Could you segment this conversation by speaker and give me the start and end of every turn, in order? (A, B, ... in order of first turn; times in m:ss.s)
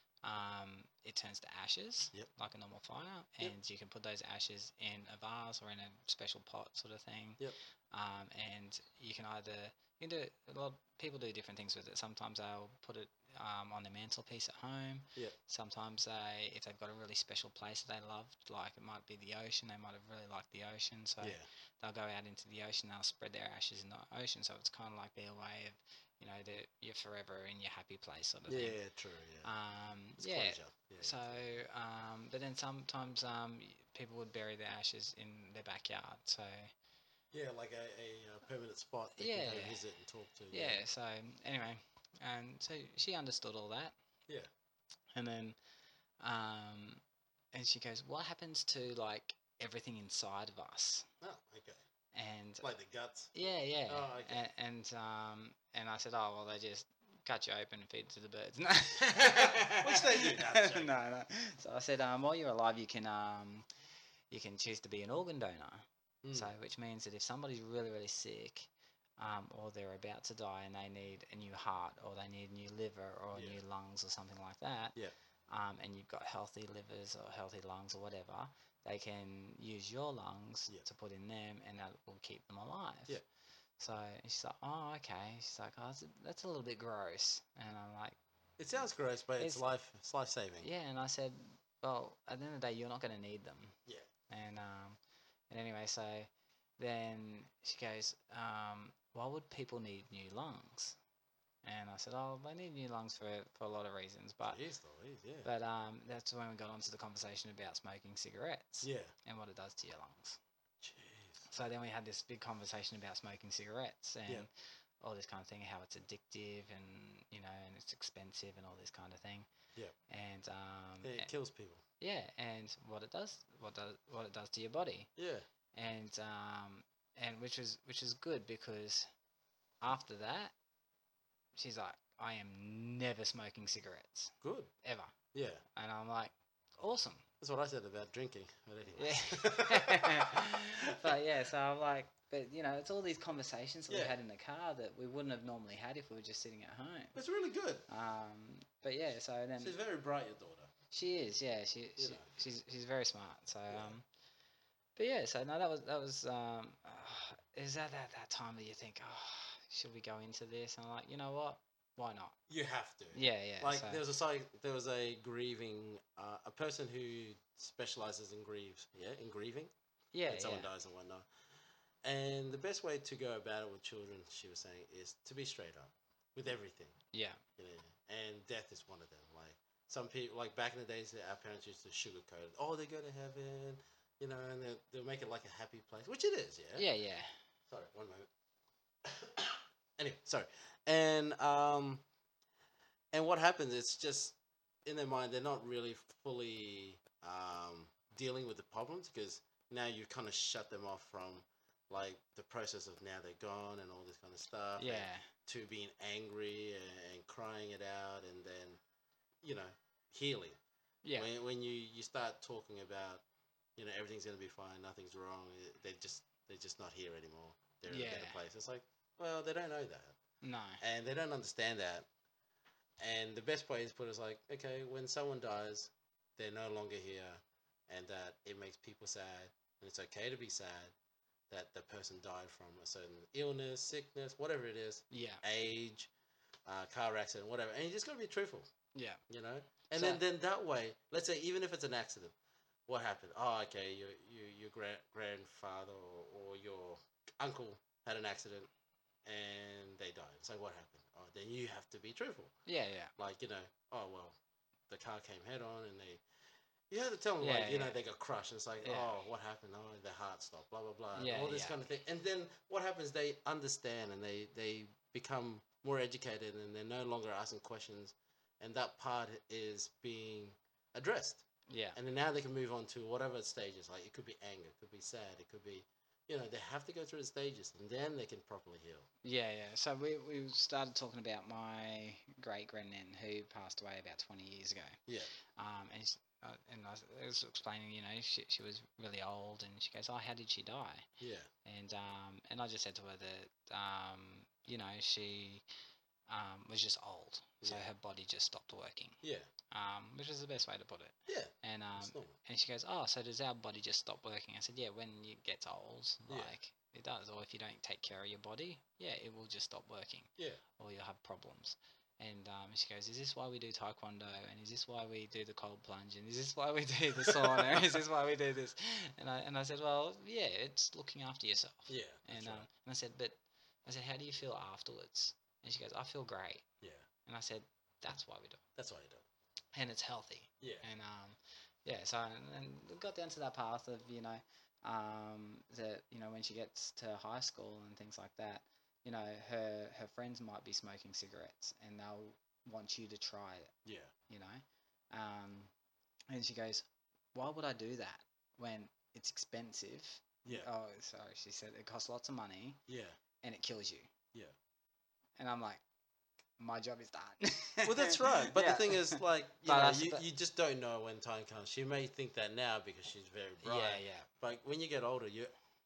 0:00.2-0:28.8 A
0:21.2-0:21.5 B
0:28.5-0:29.5 B
0:29.4-0:36.7 A
0:30.2-0:31.4 B
0:37.3-0:40.8 B
0:39.2-0:39.8 A
0:40.5-0:44.0 A
0:45.1-0:45.6 A
0:46.2-0:47.0 A
0:47.5-0:51.1 A
0:51.2-0:51.8 B
0:52.1-0:52.7 A
0:52.6-0:53.4 B
0:53.3-1:03.7 A
0:53.9-0:54.4 B
0:59.2-1:01.0 B
1:04.3-1:15.0 A
1:06.2-1:06.5 B
1:13.3-1:13.6 B
1:15.5-1:23.2 A
1:23.8-1:28.2 A
1:28.6-1:30.7 B
1:29.4-1:29.6 A
1:30.6-1:33.8 A
1:34.3-1:35.0 A
1:35.5-1:41.0 A
1:41.6-1:44.6 A
1:44.5-1:45.5 B
1:45.4-1:50.4 A
1:48.8-1:49.1 B
1:50.8-1:51.4 B
1:51.5-1:59.5 A
2:00.1-2:01.3 A
2:01.0-2:01.8 B
2:02.0-2:05.1 A
2:05.2-2:05.5 B
2:05.7-2:09.1 A
2:09.8-2:10.5 A
2:11.6-2:15.2 A
2:14.4-2:14.7 B
2:15.3-2:15.6 B
2:15.8-2:17.3 A
2:17.4-2:21.2 B
2:19.0-2:27.2 A
2:23.9-2:24.2 B
2:27.2-2:27.8 B
2:27.9-2:29.8 A
2:29.6-2:30.7 B
2:30.9-2:34.0 A
2:32.0-2:32.3 B
2:33.7-2:34.0 B
2:35.0-2:42.4 A
2:42.5-2:49.7 B
2:43.1-2:44.0 A
2:50.1-2:50.7 A
2:50.3-2:51.3 B
2:52.0-2:57.0 B
2:57.1-2:57.4 A
2:57.6-3:06.9 B
3:06.8-3:07.3 A
3:07.7-3:08.3 B
3:09.0-3:12.0 B
3:13.1-3:28.8 B
3:24.8-3:25.3 A
3:29.4-3:30.6 B
3:31.0-3:31.3 A
3:31.2-3:33.2 B
3:33.8-3:40.2 B
3:37.9-3:38.4 A
3:40.4-3:40.8 A
3:40.8-3:42.1 B
3:43.0-3:50.9 B
3:51.5-3:56.1 B
3:55.1-3:55.4 A
3:56.7-3:58.7 B
3:59.0-3:59.2 A
3:59.3-4:02.3 B
3:59.9-4:00.2 A
4:02.9-4:08.7 B
4:09.2-4:12.5 B
4:12.7-4:13.1 A
4:13.2-4:14.4 B
4:14.9-4:16.2 B
4:16.9-4:31.4 B
4:17.4-4:18.0 A
4:18.8-4:19.1 A
4:21.2-4:21.8 A
4:31.7-4:32.0 A
4:32.0-4:39.1 B
4:39.2-4:45.0 A
4:45.6-4:51.1 A
4:51.2-4:51.5 B
4:51.6-4:55.6 A
4:56.3-5:26.6 A
4:57.6-4:57.9 B
4:59.2-4:59.5 B
5:01.3-5:02.3 B
5:06.3-5:06.5 B
5:17.2-5:17.8 B
5:21.9-5:22.7 B
5:26.8-5:27.1 B
5:27.3-5:28.6 A
5:28.8-5:29.2 B
5:29.7-5:43.7 A
5:43.8-5:44.1 B
5:44.3-5:45.7 A
5:46.3-5:52.8 A
5:52.9-5:53.2 B
5:53.4-5:54.1 A
5:55.4-5:55.8 A
5:56.6-6:00.2 A
5:57.8-6:05.5 B
6:03.6-6:04.3 A